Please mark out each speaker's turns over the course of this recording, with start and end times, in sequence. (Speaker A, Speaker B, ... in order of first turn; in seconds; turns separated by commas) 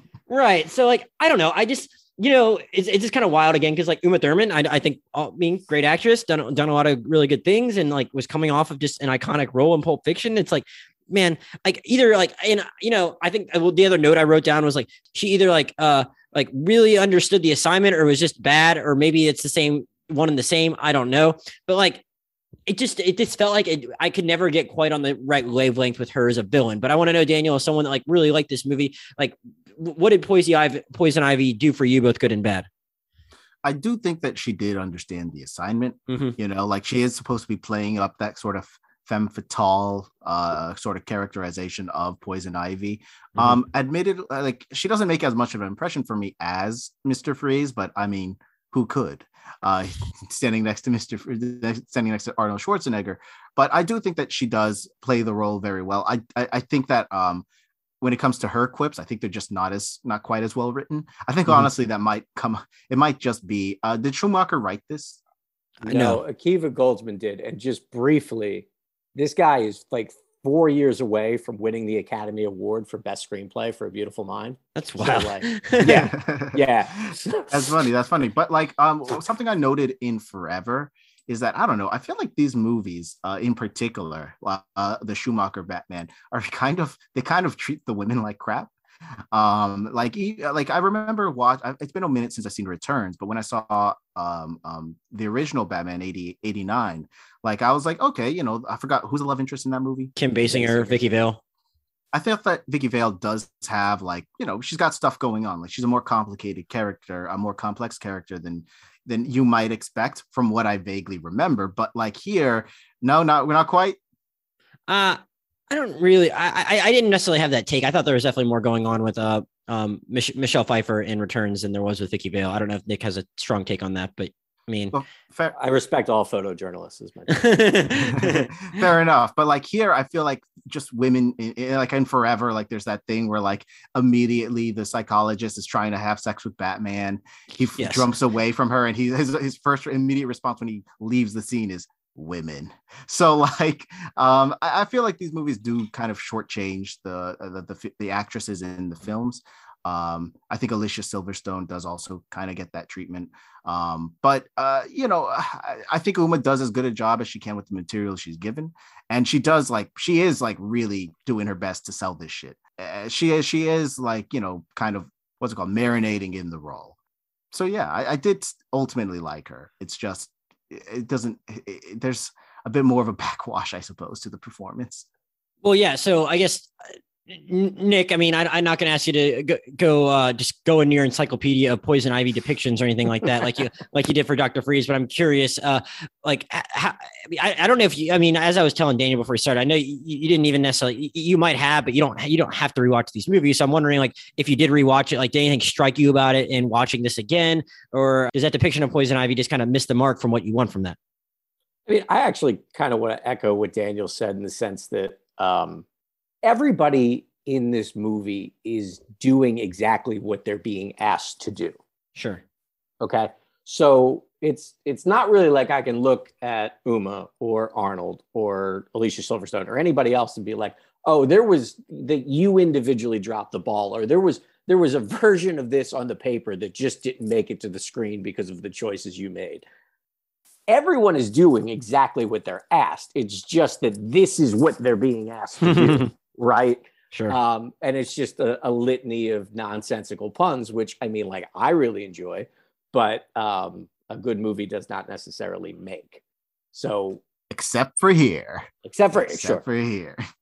Speaker A: 0.3-22.0, Speaker A: 22.7-32.7, Speaker B: 33.6-57.5, Speaker A: 36.1-36.4, Speaker B: 58.0-65.2, Speaker A: 65.8-66.2, Speaker C: 65.8-77.5, Speaker A: 74.8-76.1, Speaker B: 76.1-88.7, Speaker B: 89.3-101.0, Speaker A: 100.2-101.4, Speaker B: 102.1-114.0, Speaker A: 114.9-115.2, Speaker A: 115.7-125.0, Speaker B: 124.9-125.5, Speaker C: 125.5-127.6, Speaker A: 127.3-128.6, Speaker B: 128.0-167.0, Speaker A: 137.8-138.1, Speaker B: 167.5-175.1, Speaker A: 175.6-176.7, Speaker A: 177.3-201.0, Speaker C: 201.9-205.8, Speaker C: 206.4-211.8, Speaker A: 212.2-212.4, Speaker C: 213.0-229.7, Speaker C: 230.7-246.2, Speaker A: 235.6-236.1, Speaker C: 246.7-247.2, Speaker B: 247.5-250.2, Speaker C: 248.8-249.6